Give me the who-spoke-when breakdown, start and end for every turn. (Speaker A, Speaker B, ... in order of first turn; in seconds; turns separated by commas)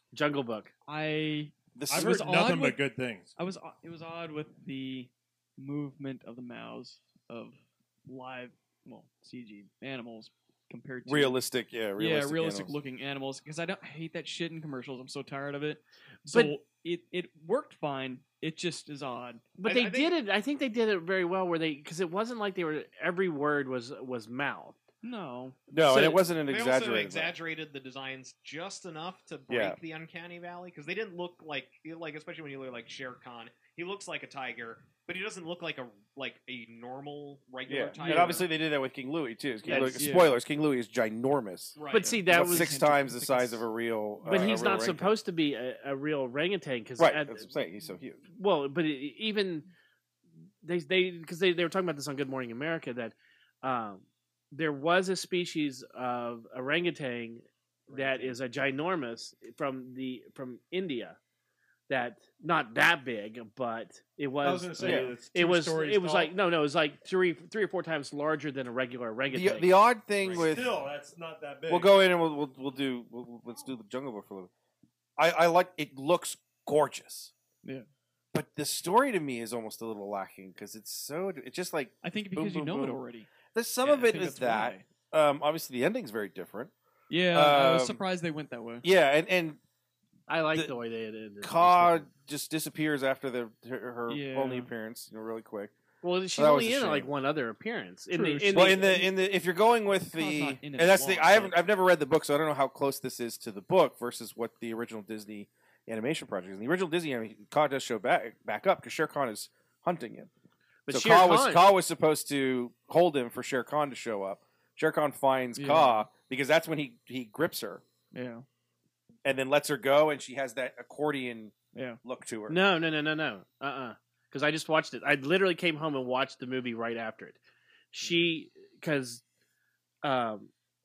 Speaker A: 0.1-0.7, Speaker B: 0.9-2.8, Speaker C: 1.8-2.4, Speaker D: 1.9-3.3, Speaker B: 3.4-11.4, Speaker C: 11.1-12.8, Speaker B: 11.9-19.5, Speaker A: 16.3-16.6, Speaker A: 19.6-24.8, Speaker E: 19.6-20.1, Speaker B: 25.0-25.6, Speaker C: 25.7-27.3, Speaker A: 25.9-26.2, Speaker E: 26.5-38.5, Speaker C: 29.5-29.8, Speaker C: 37.7-41.8, Speaker B: 37.9-38.5, Speaker B: 39.6-40.3, Speaker A: 39.7-39.9, Speaker E: 41.8-42.1, Speaker A: 41.9-42.7, Speaker B: 42.0-43.6, Speaker C: 42.3-45.1, Speaker A: 44.2-47.5, Speaker C: 47.0-48.2, Speaker A: 48.3-49.7, Speaker A: 50.6-61.2, Speaker D: 57.9-58.3, Speaker A: 61.9-69.7, Speaker D: 64.4-66.3, Speaker B: 64.8-65.2, Speaker C: 69.3-70.7, Speaker E: 70.2-70.5, Speaker D: 70.3-71.9, Speaker C: 71.7-74.5, Speaker C: 75.2-77.3, Speaker C: 78.3-86.7, Speaker B: 82.0-83.3, Speaker B: 83.8-84.8, Speaker B: 87.1-88.9, Speaker C: 87.3-88.0, Speaker C: 88.8-89.6, Speaker A: 90.3-92.1, Speaker C: 91.4-95.7, Speaker B: 94.1-94.7, Speaker A: 96.0-99.1, Speaker C: 96.3-97.1, Speaker B: 98.1-99.1, Speaker C: 98.5-110.3, Speaker B: 100.0-101.6, Speaker A: 110.9-111.7, Speaker C: 110.9-117.8, Speaker B: 115.5-116.1, Speaker B: 118.1-118.4, Speaker C: 119.2-122.6, Speaker B: 121.7-122.0, Speaker A: 122.5-127.4, Speaker A: 127.9-129.2, Speaker A: 130.0-130.5